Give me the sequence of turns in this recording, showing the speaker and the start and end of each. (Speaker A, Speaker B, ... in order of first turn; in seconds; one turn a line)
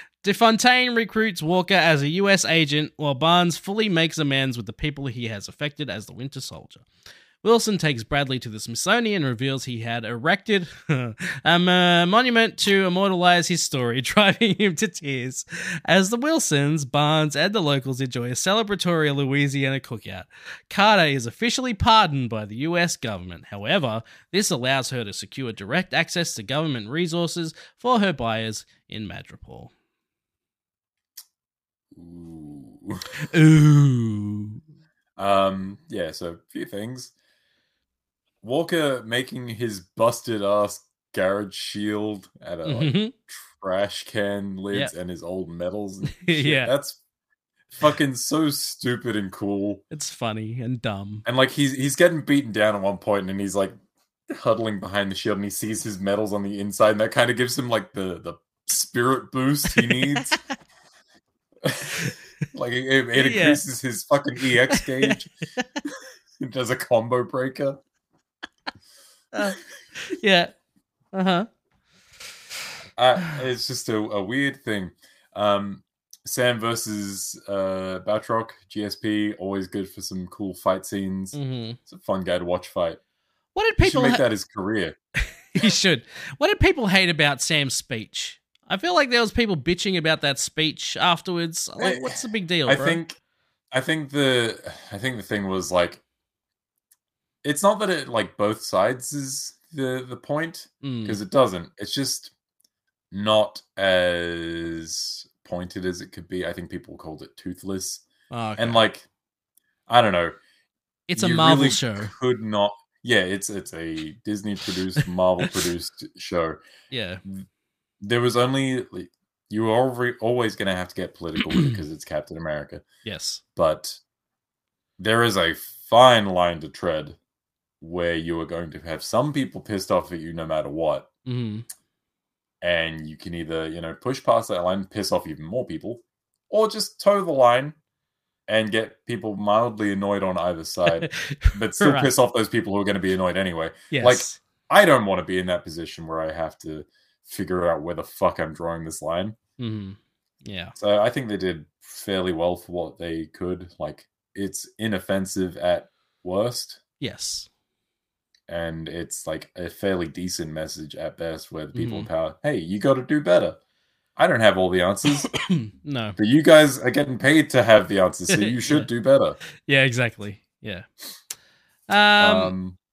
Speaker A: 0.2-6.8
Speaker A: 7.4-29.7
Speaker B: 31.9-33.1
Speaker A: 33.2-34.6
Speaker B: 35.2-37.1
Speaker B: 38.4-47.0
Speaker A: 42.6-43.1
Speaker A: 46.1-46.7
Speaker B: 47.8-49.8
Speaker A: 49.9-51.2
Speaker B: 51.2-53.7
Speaker B: 54.3-60.4
Speaker A: 59.7-60.2
Speaker B: 61.6-65.3
Speaker A: 63.1-63.6
Speaker A: 64.7-65.1
Speaker B: 65.8-67.8
Speaker A: 69.3-70.5
Speaker A: 71.1-71.5
Speaker B: 73.0-83.0
Speaker A: 81.3-81.8
Speaker A: 83.5-84.2
Speaker B: 83.8-85.0
Speaker A: 85.5-93.0
Speaker B: 91.8-93.2
Speaker B: 93.7-96.0
Speaker B: 97.4-102.3
Speaker A: 100.8-101.2
Speaker B: 103.1-108.0
Speaker A: 108.3-108.8
Speaker B: 108.6-109.1
Speaker B: 109.9-110.4
Speaker A: 111.1-112.1
Speaker B: 111.2-116.6
Speaker A: 116.9-117.2
Speaker B: 118.0-122.8
Speaker A: 123.0-123.4
Speaker B: 123.5-124.0
Speaker B: 125.0-127.2
Speaker B: 127.8-131.1
Speaker A: 131.2-131.7
Speaker B: 132.6-137.7
Speaker B: 138.5-149.4
Speaker A: 140.9-142.1
Speaker A: 143.9-144.4
Speaker A: 149.6-150.7
Speaker B: 150.8-156.8
Speaker A: 157.0-157.5
Speaker B: 158.5-163.6
Speaker A: 161.7-162.1
Speaker B: 164.2-165.3
Speaker A: 165.2-166.2
Speaker B: 166.2-169.4
Speaker A: 168.3-168.9
Speaker A: 169.7-170.8
Speaker A: 171.9-172.5
Speaker B: 172.2-172.8